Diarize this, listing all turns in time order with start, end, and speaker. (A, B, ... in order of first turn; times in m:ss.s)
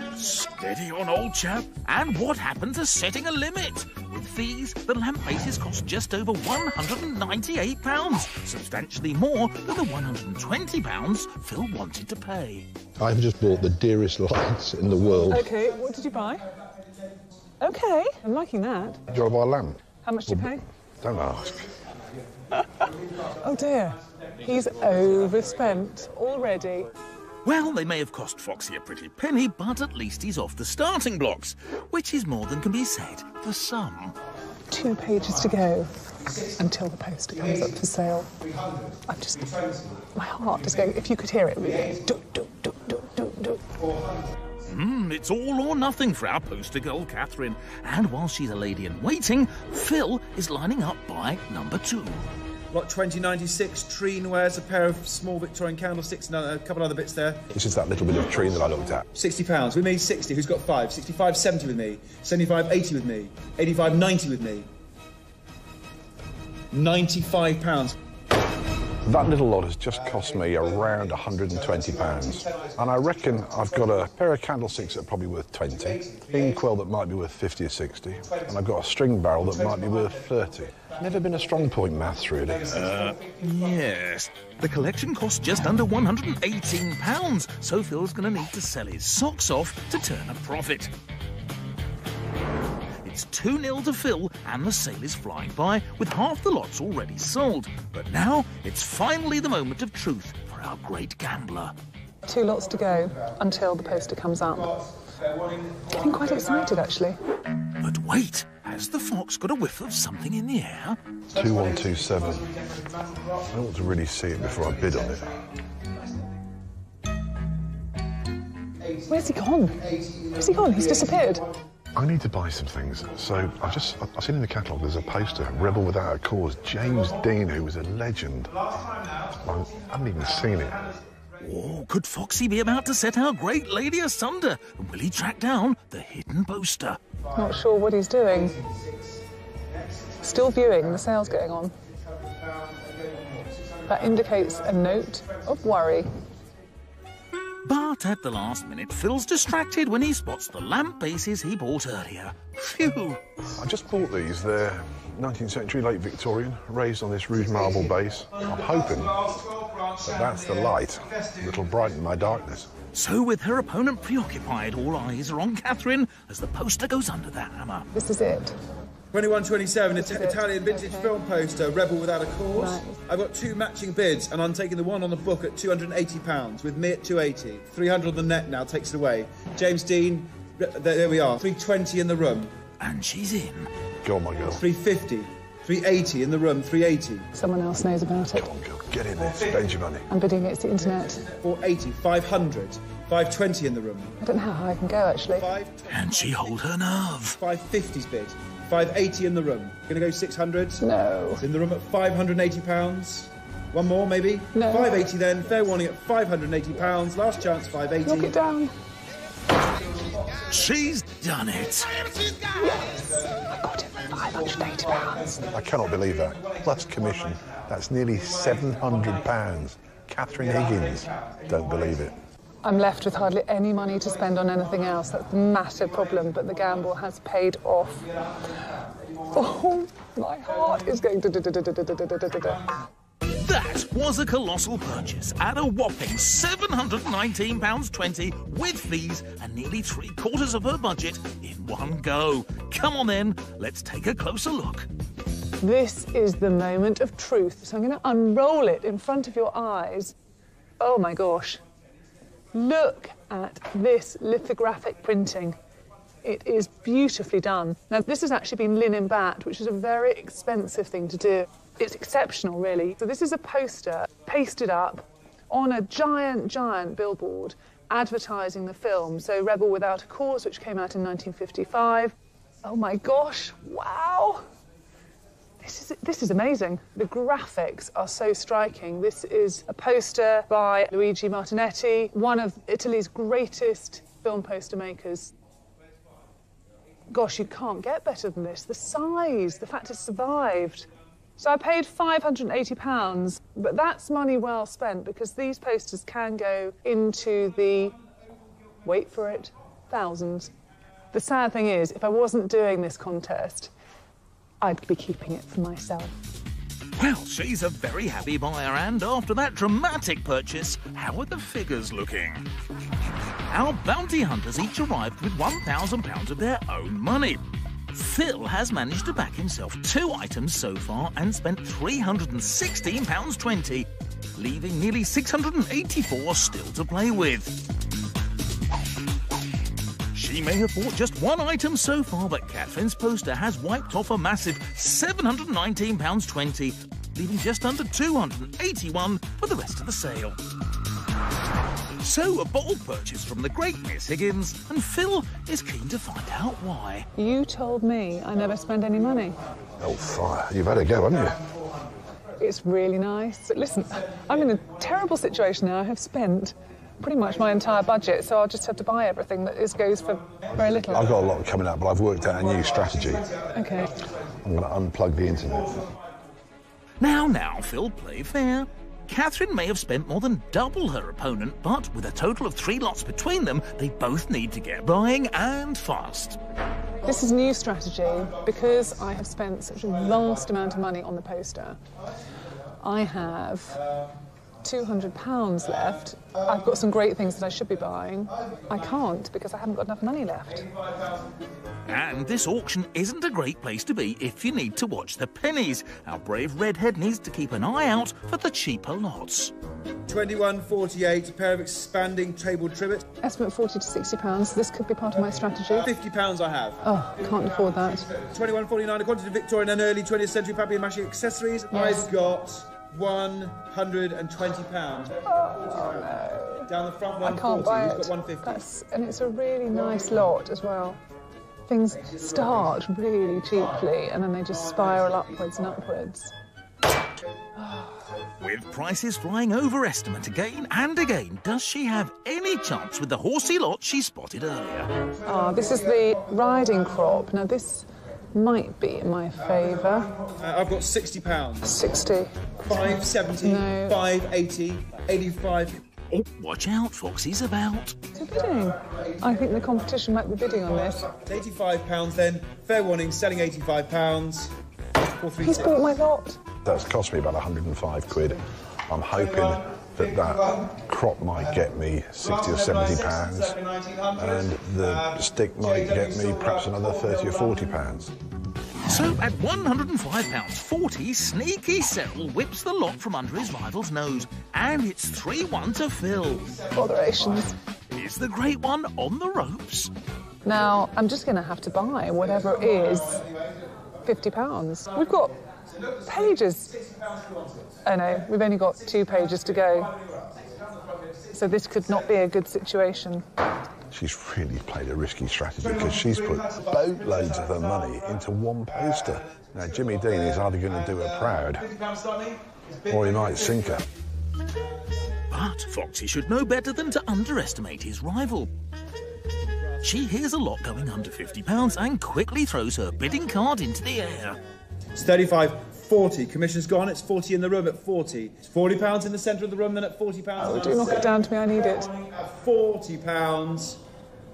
0:00.2-0:12.7 A
0:13.0-0:15.5 B
0:15.3-0:16.5 C
0:17.6-0:19.0 C
0:19.1-0:21.7 B
0:20.0-0:20.6 C
0:23.3-0:26.9 C
0:27.4-0:34.1 A
0:34.7-0:36.0 C
0:36.2-0:36.5 D
0:36.6-0:38.4 C
0:37.4-0:37.7 D
0:38.4-0:40.0 D
0:39.1-0:39.5 C
0:40.1-0:43.6 C
0:41.7-0:42.0 D
0:43.8-0:44.5 D
0:44.6-0:52.2 A
0:52.7-0:57.5 D
0:57.5-0:59.1 B
0:59.1-1:04.7 D
1:06.7-1:08.0 D
1:09.0-1:23.0 B
1:10.1-1:14.0 D
1:15.8-1:16.5 D
1:19.4-1:20.2 D
1:22.7-1:23.4 D
1:22.7-1:30.9 A
1:33.0-1:41.7 A
1:42.3-1:44.7 C
1:44.6-1:46.8 D
1:45.9-1:47.2 C
1:47.8-1:51.0 A
1:51.3-1:53.5 D
1:51.3-1:52.5 B
1:53.5-1:55.4 B
1:54.4-1:55.4 D
1:58.8-1:59.1 D
1:59.1-1:59.8 C
1:59.7-2:01.4 D
2:00.3-2:01.4 C
2:01.9-2:08.5 B
2:08.6-2:09.6 D
2:09.4-2:10.8 B
2:10.3-2:11.0 D
2:11.4-2:17.0 A
2:17.3-2:18.5 C
2:18.3-2:21.1 D
2:20.2-2:21.7 C
2:22.1-2:25.6 D
2:23.9-2:26.1 C
2:27.6-2:33.2 A
2:33.5-2:39.3 B
2:37.5-2:41.8 D
2:40.0-2:42.7 B
2:42.9-2:47.9 A
2:47.9-2:48.6 C
2:49.1-3:02.5 D
2:50.0-2:51.2 C
2:52.6-2:53.0 C
3:02.8-3:03.7 A
3:04.0-3:04.6 B
3:04.4-3:07.3 D
3:07.3-3:08.5 C
3:08.3-3:10.0 B
3:10.1-3:11.2 C
3:11.2-3:14.1 D
3:14.2-3:15.5 C
3:15.3-3:16.6 D
3:15.9-3:17.4 A
3:17.4-3:20.8 D
3:20.8-3:21.4 C
3:21.4-3:28.3 D
3:24.5-3:25.0 C
3:28.0-3:28.7 C
3:29.7-3:30.5 D
3:30.5-3:32.0 A
3:32.6-3:35.5 C
3:34.4-3:37.6 D
3:35.4-3:42.2 B
3:38.3-3:39.4 D
3:40.4-3:42.0 D
3:42.6-3:48.0 C
3:46.0-3:46.3 D
3:48.1-3:49.4 D
3:49.3-3:52.6 C
3:53.4-4:04.9 A
4:05.6-4:10.1 C
4:10.8-4:11.6 C
4:12.5-4:15.6 C
4:16.2-4:34.4 C
4:35.6-4:45.3 C
4:47.1-4:58.0 C
4:58.8-5:00.5 C
5:01.1-5:03.7 C
5:04.6-5:06.2 C
5:07.0-5:12.5 A
5:13.5-5:27.6 A
5:30.1-5:40.4 A
5:42.0-5:47.0 A
5:47.2-5:49.4 C
5:49.8-5:51.4 B
5:52.4-6:01.1 C
6:00.9-6:03.3 B
6:02.6-6:03.6 D
6:03.5-6:03.9 C
6:04.4-6:05.9 B
6:07.0-6:16.4 A
6:17.0-6:21.8 C
6:22.8-6:23.8 C
6:24.6-6:30.6 C
6:31.8-6:39.5 A
6:40.1-6:43.1 D
6:43.2-6:45.9 C
6:45.7-6:46.8 D
6:46.8-6:48.1 C
6:48.1-6:56.2 D
6:51.7-6:52.1 C
6:55.2-6:56.7 C
6:56.7-6:58.6 D
6:57.2-7:01.0 C
7:01.7-7:06.3 C
7:08.4-7:14.9 A
7:15.2-7:20.1 C
7:20.2-7:21.7 D
7:21.6-7:22.9 C
7:22.6-7:25.8 D
7:23.4-7:24.0 C
7:26.1-7:28.0 A
7:28.1-7:31.1 C
7:31.1-7:34.5 D
7:35.2-7:35.9 D
7:35.4-7:36.4 C
7:36.6-7:43.6 B
7:42.4-7:45.1 D
7:44.1-7:48.1 B
7:45.6-7:47.7 D
7:48.9-7:56.5 A
7:56.7-7:57.5 C
7:57.9-7:59.9 A
8:00.4-8:03.2 C
8:04.0-8:05.3 C
8:06.0-8:06.8 C
8:06.9-8:07.7 D
8:07.8-8:10.0 C
8:11.3-8:13.2 C
8:13.9-8:21.7 B
8:16.1-8:17.7 D
8:21.8-8:22.4 D
8:22.8-8:23.8 B
8:25.3-8:28.5 A
8:29.8-8:34.4 A
8:34.9-8:43.8 D
8:40.4-8:41.9 C